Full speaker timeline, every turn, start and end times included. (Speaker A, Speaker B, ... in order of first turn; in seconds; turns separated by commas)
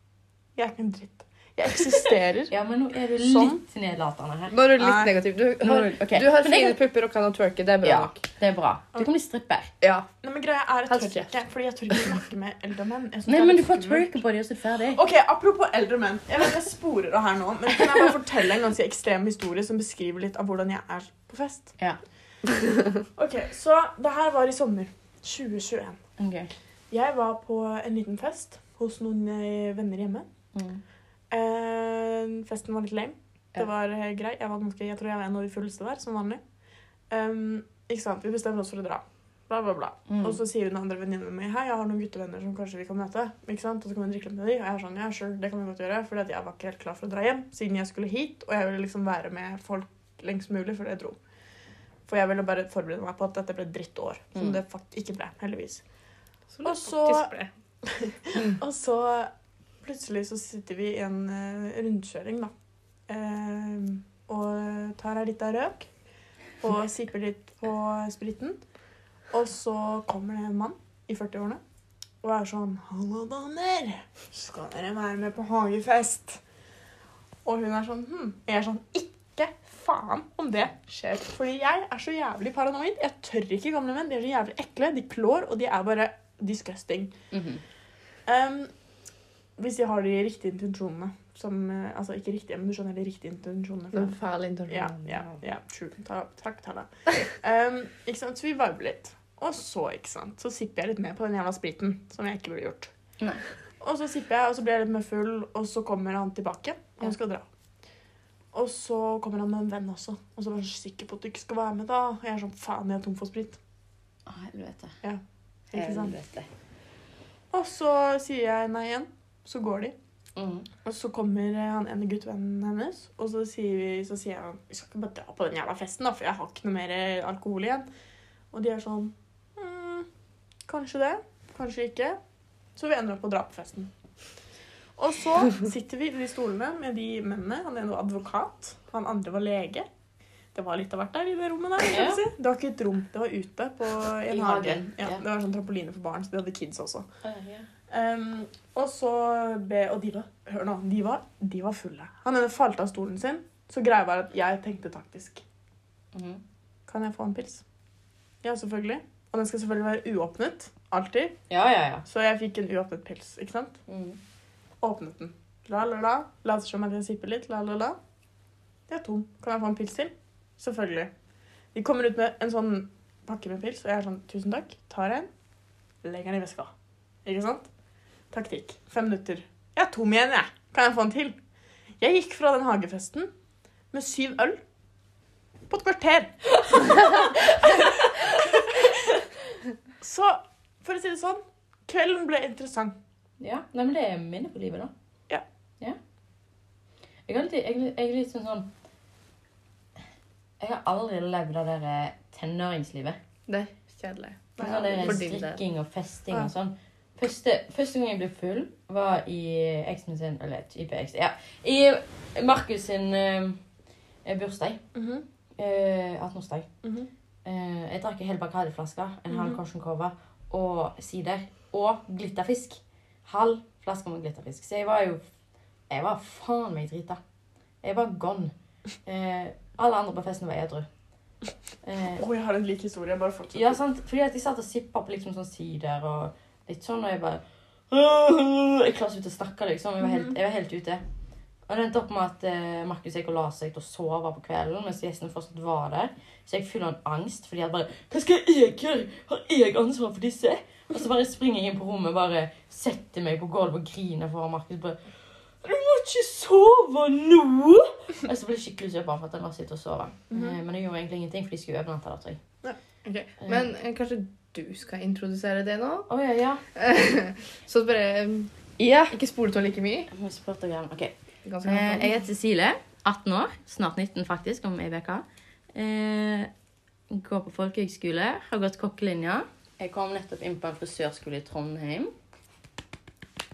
Speaker A: 0.6-2.5, Speaker B: 2.5-4.5, Speaker A: 3.1-3.6, Speaker C: 4.5-8.2, Speaker A: 4.8-5.1, Speaker B: 5.6-6.8, Speaker B: 7.8-9.7, Speaker C: 9.8-10.1, Speaker A: 10.2-14.1, Speaker C: 10.9-11.3, Speaker B: 13.3-15.0, Speaker A: 14.9-21.7, Speaker A: 23.1-26.0, Speaker B: 26.2-26.5, Speaker A: 26.9-30.2, Speaker B: 30.5-30.8, Speaker A: 31.3-36.4, Speaker A: 37.1-51.2, Speaker B: 40.1-40.4, Speaker A: 52.1-55.8, Speaker C: 56.5-57.5, Speaker A: 56.6-57.3, Speaker A: 57.9-59.3, Speaker A: 59.8-62.5, Speaker A: 63.1-65.9, Speaker A: 66.6-68.6, Speaker A: 69.3-71.6, Speaker A: 72.2-76.4, Speaker A: 77.4-87.2, Speaker B: 87.3-87.6, Speaker A: 88.3-88.7, Speaker A: 89.6-94.2, Speaker C: 93.9-95.4, Speaker A: 94.7-102.9, Speaker A: 103.8-107.4, Speaker A: 108.5-113.6, Speaker B: 114.2-115.0, Speaker A: 115.7-116.2, Speaker B: 115.7-116.5, Speaker A: 117.5-119.9, Speaker B: 120.3-120.7, Speaker A: 120.8-127.9, Speaker A: 128.5-130.1, Speaker A: 130.7-132.2, Speaker A: 132.8-133.9, Speaker A: 135.0-139.8, Speaker A: 140.5-147.1, Speaker B: 141.9-142.2, Speaker B: 144.3-145.2, Speaker B: 147.2-147.7, Speaker A: 147.9-155.4, Speaker B: 156.1-156.4, Speaker A: 156.9-157.6, Speaker A: 158.4-161.4, Speaker B: 161.5-162.0, Speaker A: 162.1-163.8, Speaker B: 163.9-164.2, Speaker A: 164.8-168.0, Speaker A: 168.9-171.1, Speaker A: 171.7-175.3, Speaker A: 176.0-176.7, Speaker A: 177.2-177.7, Speaker A: 178.3-181.4, Speaker A: 182.0-183.3, Speaker A: 183.9-184.6, Speaker A: 185.7-189.1, Speaker A: 190.0-192.9, Speaker B: 193.4-194.9, Speaker B: 197.3-198.7, Speaker B: 200.6-203.2, Speaker C: 203.5-205.6, Speaker B: 204.6-213.6, Speaker A: 204.6-205.3, Speaker B: 214.2-214.8, Speaker A: 214.9-215.2, Speaker B: 215.6-216.7, Speaker A: 216.8-217.1, Speaker B: 217.4-225.2, Speaker A: 219.3-219.6, Speaker B: 225.9-227.2, Speaker B: 227.8-228.5, Speaker B: 229.0-230.9, Speaker B: 231.8-232.2, Speaker A: 232.2-233.8, Speaker B: 233.5-241.0, Speaker A: 240.0-240.3, Speaker B: 241.7-255.0, Speaker B: 255.6-262.4, Speaker A: 260.3-260.6, Speaker C: 263.0-266.1, Speaker B: 263.4-263.7, Speaker B: 266.1-266.6, Speaker C: 266.7-268.5, Speaker B: 268.8-269.1, Speaker C: 269.1-270.1, Speaker B: 270.1-276.5, Speaker C: 271.4-272.1, Speaker B: 277.1-282.1